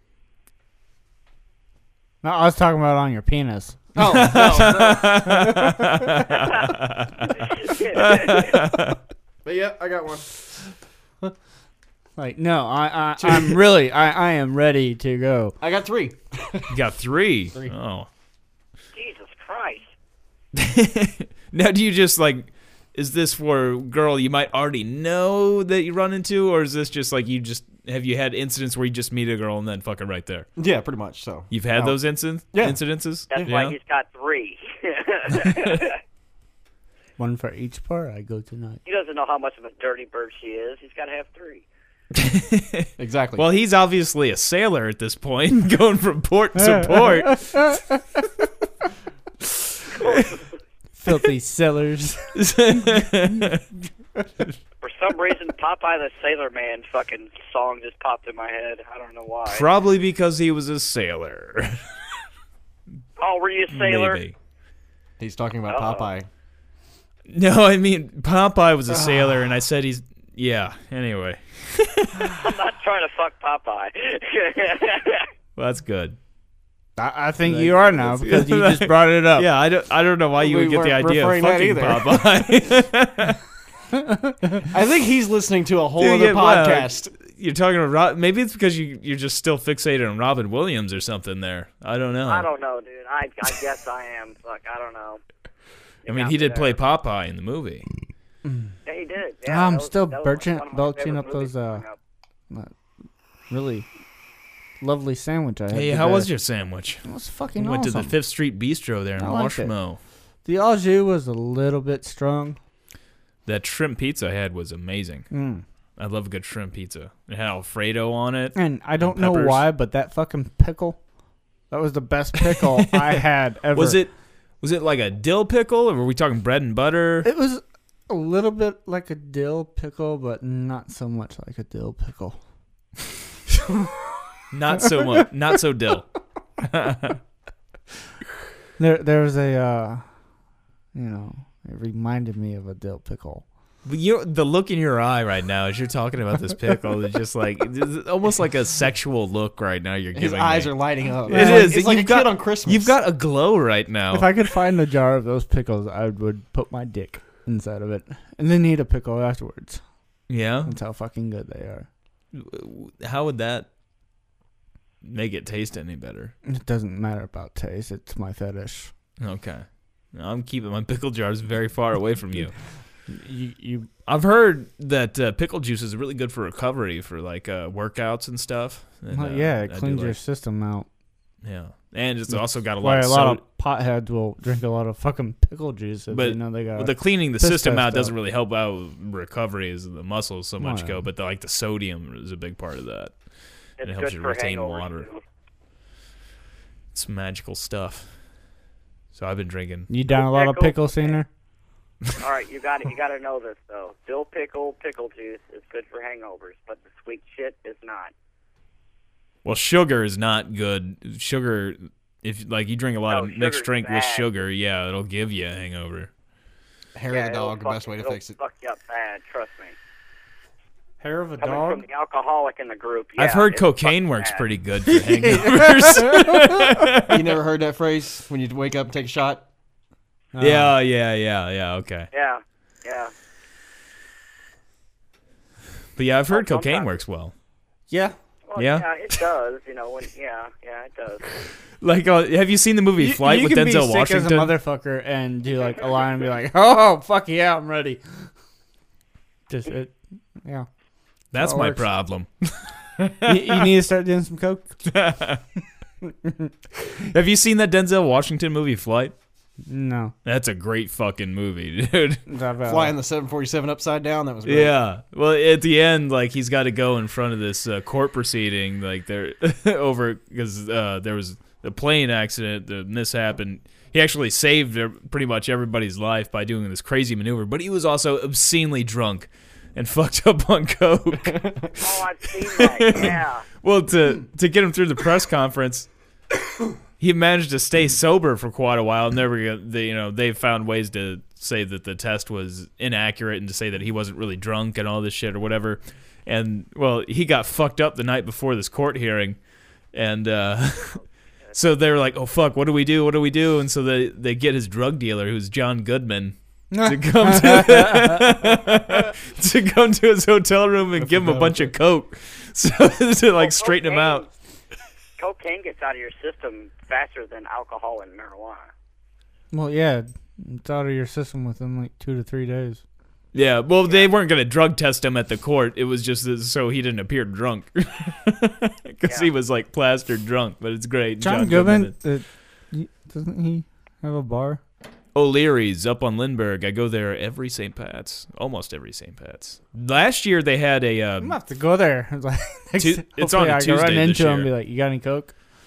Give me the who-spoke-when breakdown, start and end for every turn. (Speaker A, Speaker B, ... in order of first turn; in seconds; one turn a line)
Speaker A: 2.2-3.9
Speaker B: 4.0-5.3
Speaker C: 4.0-9.0
Speaker D: 7.7-8.5
Speaker B: 9.4-11.3
Speaker A: 12.2-15.6
Speaker B: 13.2-13.6
Speaker B: 15.6-16.8
Speaker C: 16.7-18.1
Speaker D: 18.9-19.9
Speaker C: 20.5-30.5
Speaker B: 30.6-32.0
Speaker C: 31.5-33.8
Speaker D: 33.3-36.0
Speaker A: 37.2-38.8
Speaker D: 38.9-41.6
Speaker C: 42.1-47.8
Speaker B: 43.0-43.4
Speaker A: 46.6-48.0
Speaker C: 49.9-50.4
Speaker D: 50.0-50.4
Speaker A: 51.0-52.3
Speaker C: 52.3-53.6
Speaker D: 54.8-59.6
Speaker C: 59.5-61.9
Speaker D: 63.2-64.2
Speaker C: 63.7-64.3
Speaker B: 65.2-66.3
Speaker D: 65.7-66.1
Speaker C: 67.3-72.3
Speaker B: 68.9-69.5
Speaker D: 72.3-75.3
Speaker C: 75.6-76.2
Speaker A: 77.0-79.5
Speaker C: 77.4-83.4
Speaker B: 80.3-82.2
Speaker A: 83.9-84.5
Speaker B: 84.7-87.1
Speaker C: 86.0-92.5
Speaker D: 92.2-95.2
Speaker D: 96.0-96.8
Speaker C: 96.0-97.8
Speaker A: 98.4-98.7
Speaker D: 98.8-102.0
Speaker A: 99.5-101.8
Speaker A: 103.5-103.9
Speaker A: 104.8-106.3
Speaker C: 105.7-110.0
Speaker A: 107.0-108.1
Speaker A: 109.2-109.7
Speaker A: 110.4-112.6
Speaker C: 113.5-115.2
Speaker A: 115.3-115.6
Speaker C: 116.0-119.6
Speaker A: 118.5-121.0
Speaker A: 121.7-124.0
Speaker C: 122.4-124.1
Speaker C: 124.6-127.3
Speaker A: 127.2-132.4
Speaker C: 134.5-137.2
Speaker A: 134.9-135.2
Speaker A: 138.8-140.0
Speaker A: 140.9-143.4
Speaker C: 143.8-154.3
Speaker B: 150.1-153.0
Speaker A: 151.3-151.8
Speaker A: 154.1-159.8
Speaker C: 160.3-160.8
Speaker A: 160.6-161.9
Speaker C: 162.3-163.7
Speaker C: 165.0-166.3
Speaker A: 166.4-168.9
Speaker C: 169.2-172.5
Speaker A: 173.1-173.9
Speaker C: 174.1-180.2
Speaker A: 179.1-180.9
Speaker C: 181.4-183.4
Speaker A: 182.3-188.1
Speaker C: 186.1-193.1
Speaker A: 190.6-191.0
Speaker D: 193.8-195.2
Speaker C: 193.8-195.1
Speaker C: 196.9-198.1
Speaker C: 199.1-199.9
Speaker A: 199.9-201.3
Speaker D: 200.1-201.2
Speaker D: 202.2-208.1
Speaker C: 209.4-216.1
Speaker D: 213.1-214.3
Speaker B: 216.9-218.3
Speaker D: 217.1-219.8
Speaker A: 221.0-221.8
Speaker D: 221.4-224.4
Speaker C: 223.2-227.3
Speaker A: 225.0-226.7
Speaker B: 227.1-229.5
Speaker A: 230.3-230.8
Speaker C: 230.4-232.1
Speaker D: 232.1-233.1
Speaker C: 235.9-237.3
Speaker D: 236.3-236.9
Speaker A: 237.9-238.1
Speaker D: 238.5-241.2
Speaker C: 238.6-238.9
Speaker C: 241.8-244.6
Speaker A: 243.0-248.0
Speaker A: 249.5-250.7
Speaker C: 251.3-253.7
Speaker A: 251.3-251.8
Speaker A: 253.2-254.8
Speaker C: 254.8-255.4
Speaker A: 256.0-256.5
Speaker C: 256.9-259.1
Speaker A: 259.7-260.1
Speaker C: 260.2-262.2
Speaker A: 262.3-262.9
Speaker B: 262.6-264.7
Speaker C: 264.4-285.9
Speaker B: 281.3-281.7
Speaker D: 281.8-283.4
Speaker C: 287.0-299.4
Speaker C: 299.9-301.0
Speaker C: 301.5-314.2
Speaker A: 306.7-308.6
Speaker B: 311.1-311.6
Speaker D: 313.4-314.3
Speaker D: 315.2-318.7
Speaker A: 319.5-322.8
Speaker C: 323.3-331.9
Speaker A: 331.2-334.6
Speaker C: 335.1-341.4
Speaker A: 341.2-345.3
Speaker C: 342.8-344.5